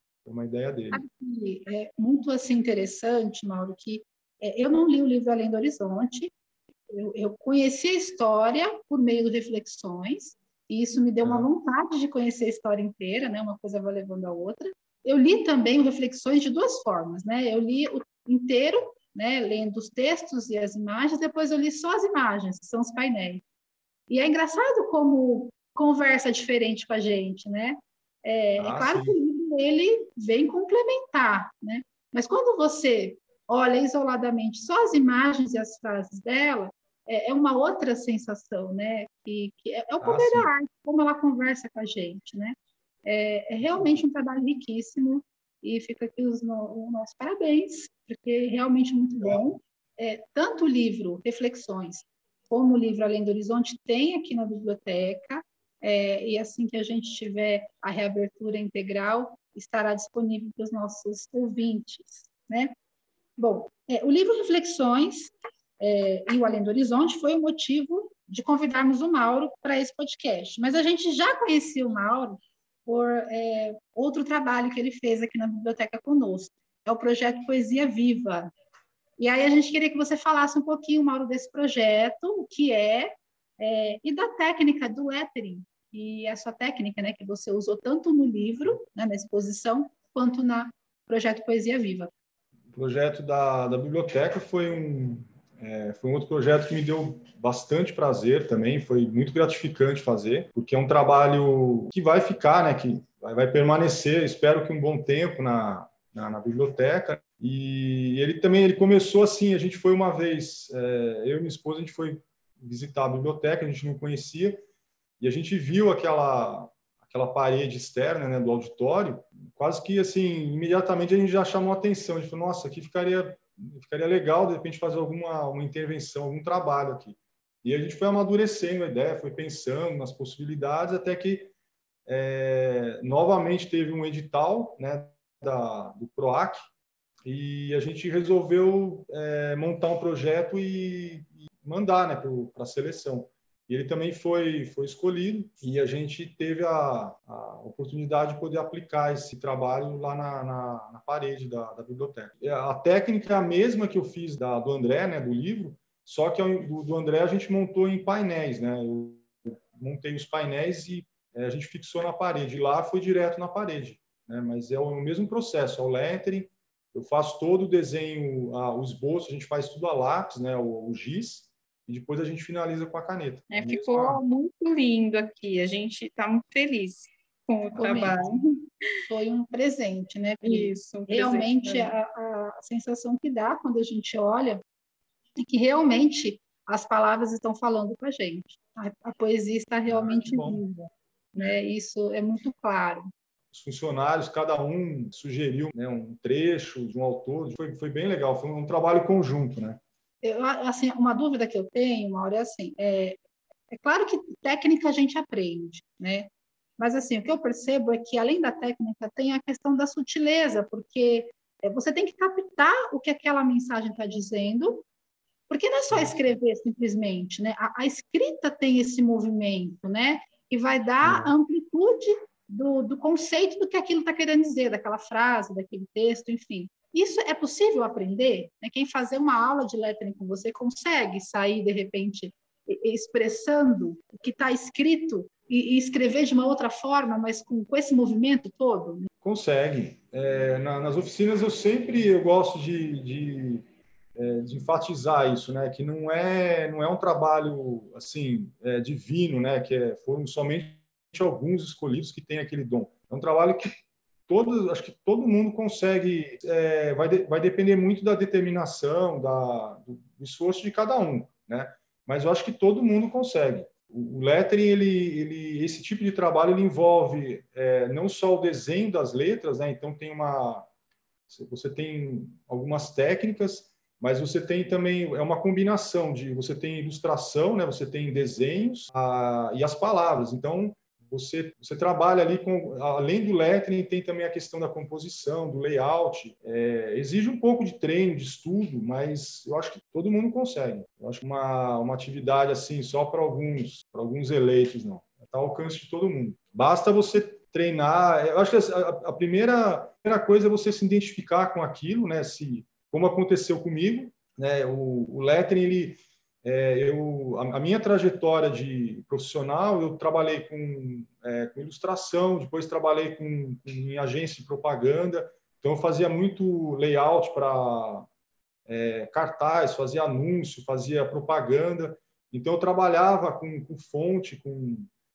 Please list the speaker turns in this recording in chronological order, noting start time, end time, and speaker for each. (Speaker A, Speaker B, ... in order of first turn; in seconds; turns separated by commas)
Speaker A: 0.2-1.0, Speaker B: 0.9-6.3, Speaker B: 6.9-23.4, Speaker A: 11.2-11.5, Speaker B: 24.1-62.7, Speaker A: 28.6-29.2, Speaker A: 40.0-40.5, Speaker A: 43.6-44.0, Speaker A: 49.2-49.5, Speaker B: 63.4-78.5, Speaker B: 79.2-92.1, Speaker A: 92.7-114.6, Speaker A: 115.2-131.5, Speaker A: 132.1-136.6, Speaker A: 137.2-174.2, Speaker C: 173.5-178.4, Speaker B: 177.7-178.2, Speaker A: 177.7-178.3, Speaker B: 179.1-184.6, Speaker C: 180.4-181.9, Speaker B: 185.4-193.1, Speaker A: 189.9-190.6, Speaker A: 193.5-199.8, Speaker B: 200.2-203.2, Speaker B: 203.7-214.8, Speaker B: 215.5-239.1, Speaker A: 215.9-216.2, Speaker A: 221.0-221.3, Speaker A: 239.2-243.6, Speaker A: 244.2-253.7, Speaker A: 254.3-270.6, Speaker A: 271.3-318.1, Speaker A: 318.7-324.9